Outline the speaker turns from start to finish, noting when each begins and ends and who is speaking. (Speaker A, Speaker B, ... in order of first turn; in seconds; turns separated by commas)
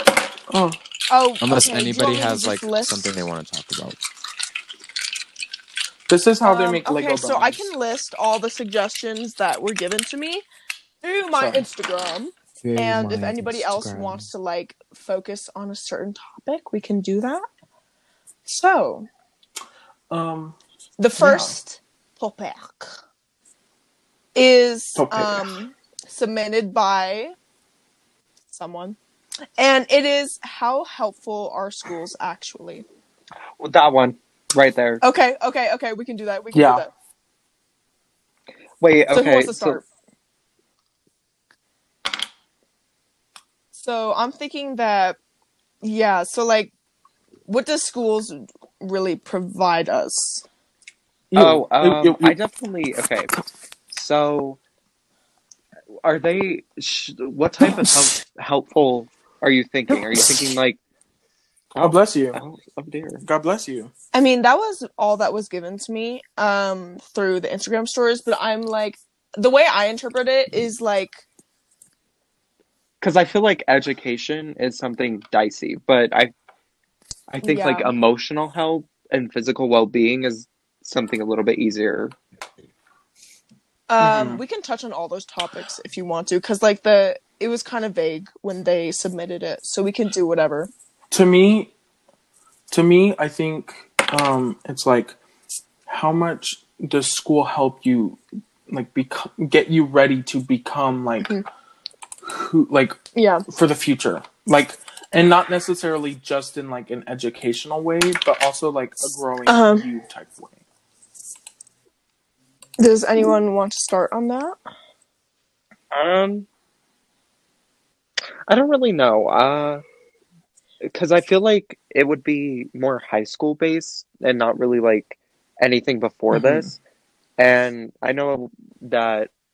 Speaker A: 0.5-0.8, Speaker B: 1.1-3.1, Speaker C: 1.4-4.0, Speaker A: 6.1-7.7, Speaker B: 6.4-10.4, Speaker B: 11.0-17.5, Speaker A: 11.4-11.6, Speaker C: 12.6-14.3, Speaker B: 18.5-19.1, Speaker A: 20.1-20.6, Speaker B: 21.0-22.9, Speaker A: 21.2-21.6, Speaker B: 24.4-27.3, Speaker A: 25.0-25.6, Speaker B: 28.5-29.0, Speaker B: 29.6-32.9, Speaker D: 33.6-35.0, Speaker B: 35.0-36.9, Speaker A: 36.5-36.9, Speaker D: 38.8-39.8, Speaker B: 39.1-39.8, Speaker B: 43.8-45.2, Speaker B: 45.8-46.7, Speaker B: 47.5-50.4, Speaker A: 51.3-52.4, Speaker D: 51.4-53.3, Speaker D: 53.9-54.6, Speaker D: 56.0-60.8, Speaker A: 61.8-62.4, Speaker D: 61.8-63.2, Speaker A: 63.2-63.9, Speaker B: 64.1-71.2, Speaker D: 73.0-76.3, Speaker D: 77.3-82.2, Speaker B: 77.4-77.9, Speaker B: 83.9-90.7, Speaker A: 84.0-84.4, Speaker A: 91.1-91.7, Speaker A: 92.7-95.2, Speaker A: 95.9-101.3, Speaker A: 102.2-110.6, Speaker B: 103.2-103.5, Speaker B: 109.5-109.9, Speaker B: 112.8-114.6, Speaker D: 115.9-116.5, Speaker D: 118.5-119.8, Speaker D: 120.8-126.8, Speaker A: 126.3-126.7, Speaker D: 127.4-129.3